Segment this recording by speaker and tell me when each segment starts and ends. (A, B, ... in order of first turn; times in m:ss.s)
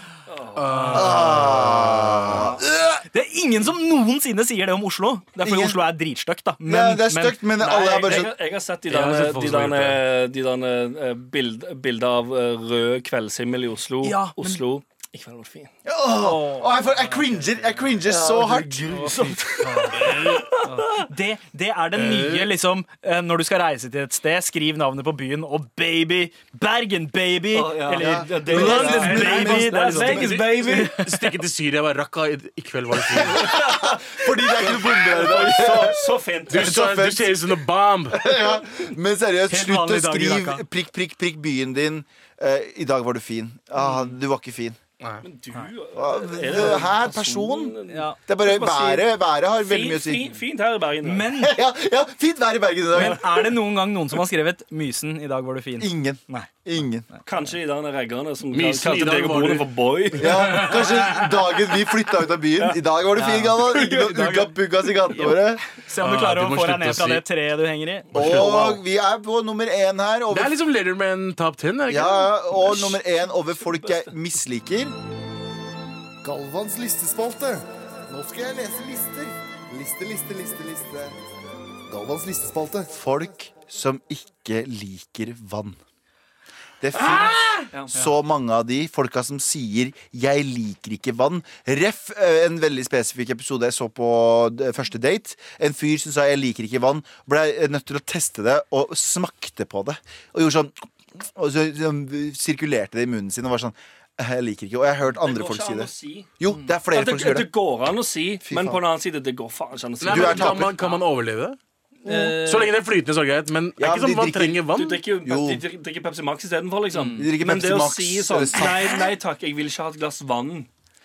0:00.3-0:01.1 A
0:00.6-0:02.5 B
0:00.7-0:01.0 C
0:00.9-0:03.0 D
0:03.1-0:07.4 C
0:05.4-0:05.8 D
0:06.6-0:08.3 D
0:07.6-0:15.7 A
0:08.9-0:10.0 B
0:14.0-0:14.6 C
0:15.8-0:19.3 D
0:16.1-0:17.2 C
0:18.1-0:21.0 A
0:19.6-0:31.3 C
0:19.9-0:20.5 B
0:22.0-0:22.5 B
0:27.5-0:30.9 A
0:28.0-0:29.5 D
0:28.5-0:33.5 B
0:33.1-0:36.0 D
0:33.3-0:36.8 A
0:36.5-0:38.4 B
0:36.5-0:44.8 D
0:39.5-0:40.6 C
0:45.2-0:49.1 A
0:46.0-0:50.3 D
0:47.9-0:48.2 C
0:49.6-0:51.3 A
0:51.0-0:51.6 C
0:51.4-0:53.5 D
0:52.9-0:56.5 C
0:55.8-0:57.1 D
0:57.3-1:00.9 A
0:58.5-1:01.3 B
1:00.2-1:05.6 D
1:03.2-1:04.5 C
1:05.1-1:08.8 C
1:06.0-1:07.2 B
1:08.1-1:08.6 B
1:08.1-1:10.6 D
1:10.3-1:12.8 B
1:11.9-1:15.0 D
1:13.7-1:14.0 A
1:16.2-1:21.2 E
1:21.9-1:23.0 E
1:22.9-1:25.8 D
1:26.8-1:47.5 D
1:27.2-1:27.7 B
1:45.2-1:46.3 A
1:46.9-1:50.6 A
1:48.4-1:48.8 D
1:50.0-1:51.6 B
1:50.0-1:50.8 D
1:52.0-1:52.7 C
1:52.1-1:55.0 B
1:53.8-1:54.6 D
1:54.7-2:00.7 A
1:55.2-1:55.6 D
1:56.9-1:57.3 C
1:57.2-1:59.1 D